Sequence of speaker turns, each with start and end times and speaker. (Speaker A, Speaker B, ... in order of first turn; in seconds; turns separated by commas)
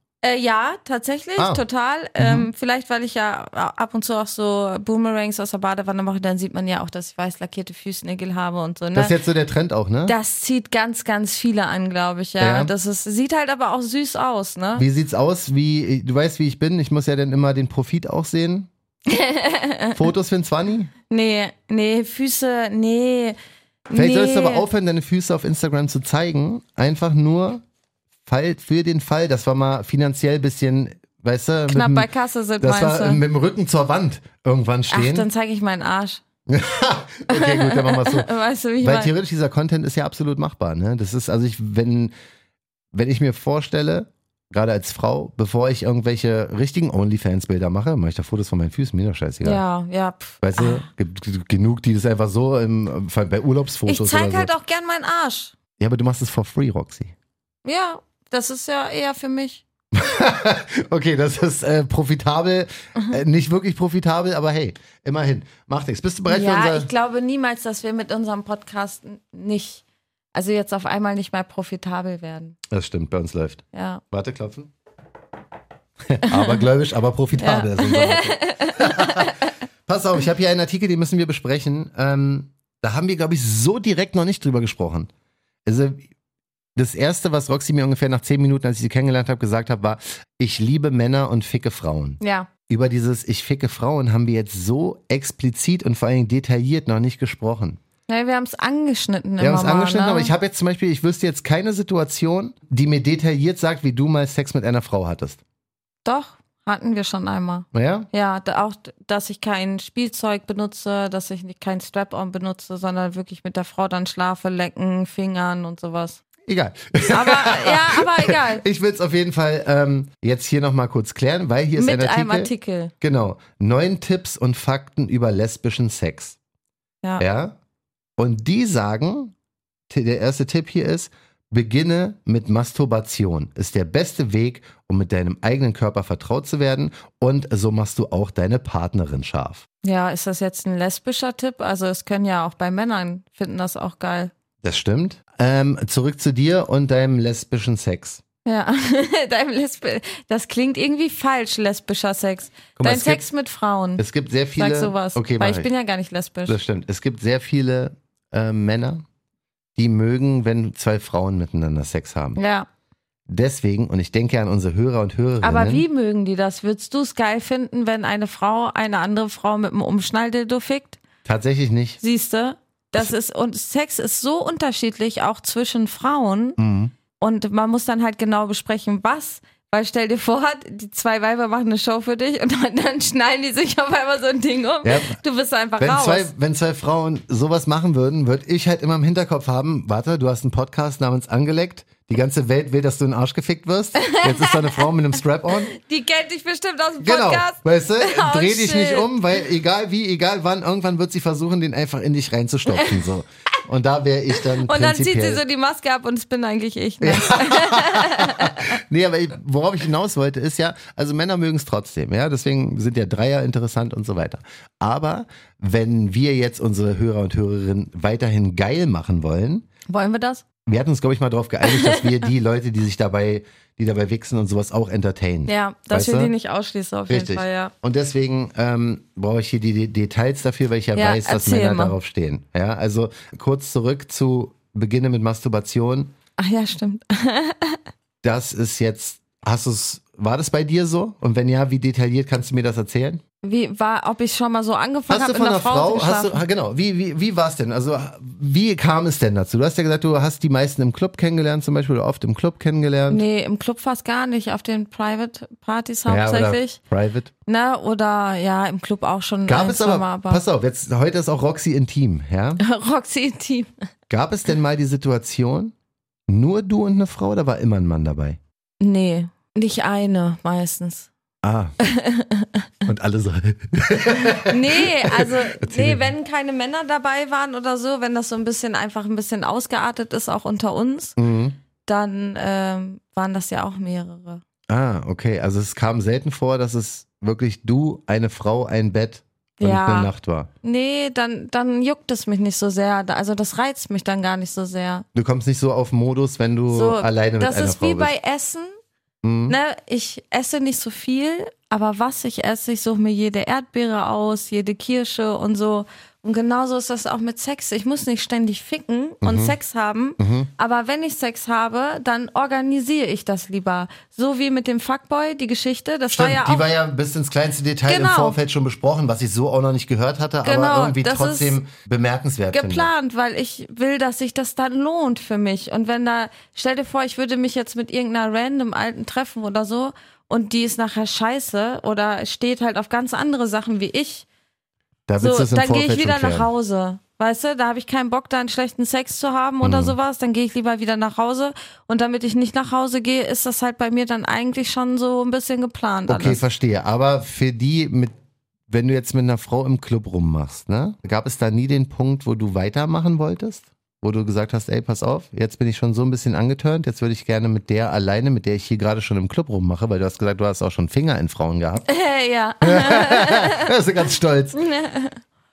Speaker A: 0.2-9.1, Speaker B: 1.4-1.6, Speaker B: 2.2-2.5, Speaker B: 8.9-10.1, Speaker A: 10.1-14.8, Speaker B: 12.4-12.7, Speaker B: 14.8-18.7, Speaker A: 19.1-20.0, Speaker B: 19.9-20.9, Speaker A: 21.1-23.4, Speaker A: 23.9-24.6, Speaker B: 23.9-27.6, Speaker B: 28.2-32.1, Speaker A: 31.7-33.2, Speaker B: 32.6-35.3, Speaker A: 34.9-36.2, Speaker B: 36.5-38.3, Speaker A: 37.3-39.1, Speaker B: 38.8-42.1, Speaker B: 42.9-49.6, Speaker A: 49.4-50.8, Speaker B: 50.4-54.5, Speaker A: 53.9-55.5, Speaker B: 55.8-57.1, Speaker A: 57.6-59.6, Speaker B: 59.9-66.9, Speaker A: 66.3-69.8, Speaker A: 70.3-72.5, Speaker B: 72.7-74.7, Speaker A: 73.7-74.0, Speaker B: 76.1-79.3, Speaker A: 76.3-76.6, Speaker A: 77.4-79.4, Speaker B: 79.8-85.1, Speaker B: 85.6-86.0, Speaker B: 86.8-97.8, Speaker A: 92.2-92.5, Speaker A: 98.1-100.3, Speaker B: 99.4-105.4, Speaker A: 106.0-116.2, Speaker B: 107.7-108.1, Speaker B: 116.5-126.4, Speaker A: 117.1-118.6, Speaker A: 121.8-122.9, Speaker B: 127.2-127.5, Speaker B: 128.2-129.3, Speaker B: 129.9-139.6, Speaker A: 139.8-144.3, Speaker B: 144.6-148.2, Speaker A: 148.4-154.0, Speaker B: 152.8-153.2, Speaker B: 154.0-155.7, Speaker A: 154.6-156.6, Speaker B: 156.5-159.0, Speaker B: 159.8-162.4, Speaker A: 162.3-162.7, Speaker B: 163.3-165.8, Speaker A: 165.4-171.0, Speaker B: 171.2-172.0, Speaker A: 172.0-176.6, Speaker B: 176.6-176.9, Speaker A: 177.2-186.3, Speaker B: 184.8-185.2, Speaker B: 185.8-195.7, Speaker A: 194.0-194.8, Speaker A: 195.7-199.1, Speaker B: 197.0-205.4, Speaker A: 204.6-208.7, Speaker B: 207.0-219.7, Speaker A: 219.9-220.4, Speaker B: 220.7-226.3, Speaker A: 221.6-222.2, Speaker A: 225.5-227.7, Speaker B: 227.1-236.1, Speaker A: 230.9-231.9, Speaker A: 236.4-237.8, Speaker B: 238.2-243.2, Speaker A: 243.4-246.4, Speaker B: 245.1-253.2, Speaker A: 253.1-256.8, Speaker B: 256.1-257.3, Speaker A: 257.4-260.4, Speaker B: 259.5-262.6, Speaker A: 262.6-263.7, Speaker B: 264.1-265.7, Speaker B: 266.3-268.4, Speaker A: 268.8-271.1, Speaker B: 271.4-271.7, Speaker A: 271.8-272.6, Speaker B: 272.9-276.1, Speaker A: 274.4-281.1, Speaker B: 281.2-281.6, Speaker A: 281.8-284.4, Speaker B: 284.7-290.5, Speaker A: 289.6-290.1, Speaker A: 290.6-295.0, Speaker B: 295.1-298.1, Speaker A: 296.7-298.7, Speaker B: 299.2-299.6, Speaker A: 299.5-316.6, Speaker B: 309.2-309.6, Speaker B: 310.2-310.5, Speaker B: 316.1-322.9, Speaker A: 317.9-318.4, Speaker A: 320.4-321.6, Speaker A: 322.5-334.2, Speaker B: 335.1-336.5, Speaker A: 335.2-346.4, Speaker B: 339.6-340.0, Speaker B: 346.1-348.1, Speaker B: 348.7-361.9, Speaker A: 361.9-363.8, Speaker B: 362.6-364.6, Speaker A: 364.5-365.2